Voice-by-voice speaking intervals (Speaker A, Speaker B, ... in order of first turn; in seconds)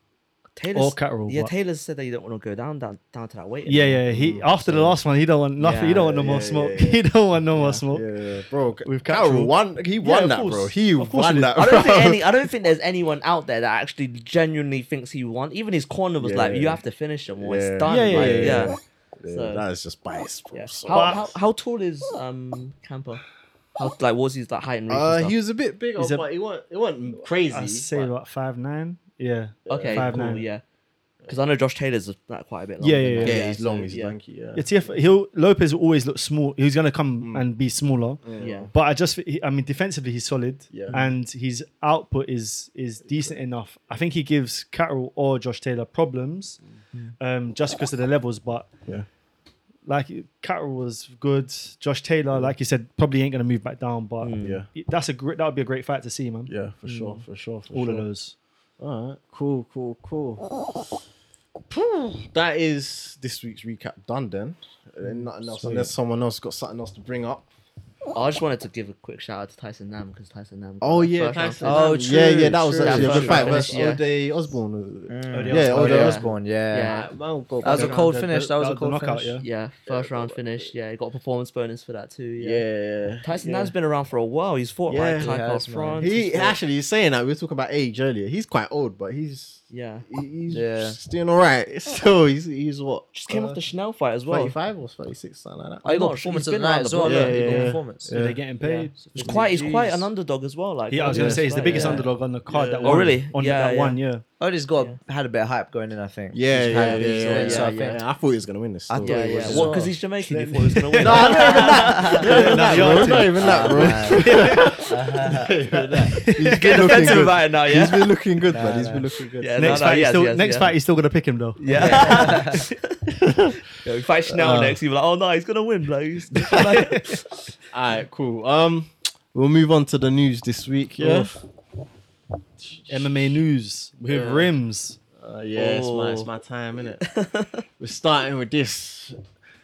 Speaker A: 0.6-4.0, 5.6-6.1, 11.6-18.8, 19.3-19.6, 20.5-23.2, 23.8-25.4, 29.7-30.6, 31.3-34.1, 38.4-38.7, 54.2-54.6, 56.9-57.2, 68.1-72.0, 72.8-74.0, 75.9-77.1, 79.4-82.6, 83.2-86.6, 89.7-90.0, 93.1-94.5, 95.8-97.4, 98.6-102.1, 102.8-104.0, 106.9-107.9, 109.0-112.9, 113.4-114.5, 116.2-118.1, 119.4-120.7, 121.6-123.0, 123.7-127.3, 135.6-136.3, 137.0-137.6
Speaker B: 0.7-1.5, 3.6-8.1, 8.9-11.6, 17.8-18.7, 20.9-21.2, 26.0-26.3, 27.1-30.4, 32.8-33.5, 34.5-38.2, 38.7-46.6, 47.2-48.7, 49.9-56.5, 57.7-58.3, 65.0-65.9, 72.9-73.8, 75.3-76.2, 77.6-79.4, 97.1-99.4, 100.9-104.2, 110.3-114.7, 116.1-117.3, 119.6-122.1, 126.5-127.0, 131.0-131.3, 132.9-135.0
Speaker C: 4.1-5.0, 5.9-7.0, 7.8-12.2, 16.2-16.8, 17.4-21.3, 24.9-28.1, 29.6-30.4, 33.2-35.0, 37.2-37.5, 38.2-38.7, 40.7-41.1, 43.1-43.4, 54.4-54.7, 56.5-58.1, 58.8-60.5, 61.7-67.5, 70.8-78.1, 79.9-80.7, 82.4-83.7, 84.9-85.4, 86.0-93.5, 94.3-95.9, 97.0-98.4, 101.1-101.5, 102.5-103.1, 106.3-109.9, 111.0-119.9, 123.1-123.6, 124.3-124.8, 127.7-131.4, 132.6-133.4, 134.1-134.5, 135.2-137.0, 137.8-139.2
Speaker D: 71.6-73.6, 75.1-76.9, 77.6-79.4, 85.2-86.0, 90.5-91.0, 95.8-100.0, 101.6-102.1, 104.4-108.0, 108.9-109.9, 111.1-116.1, 118.5-119.0, 121.7-122.6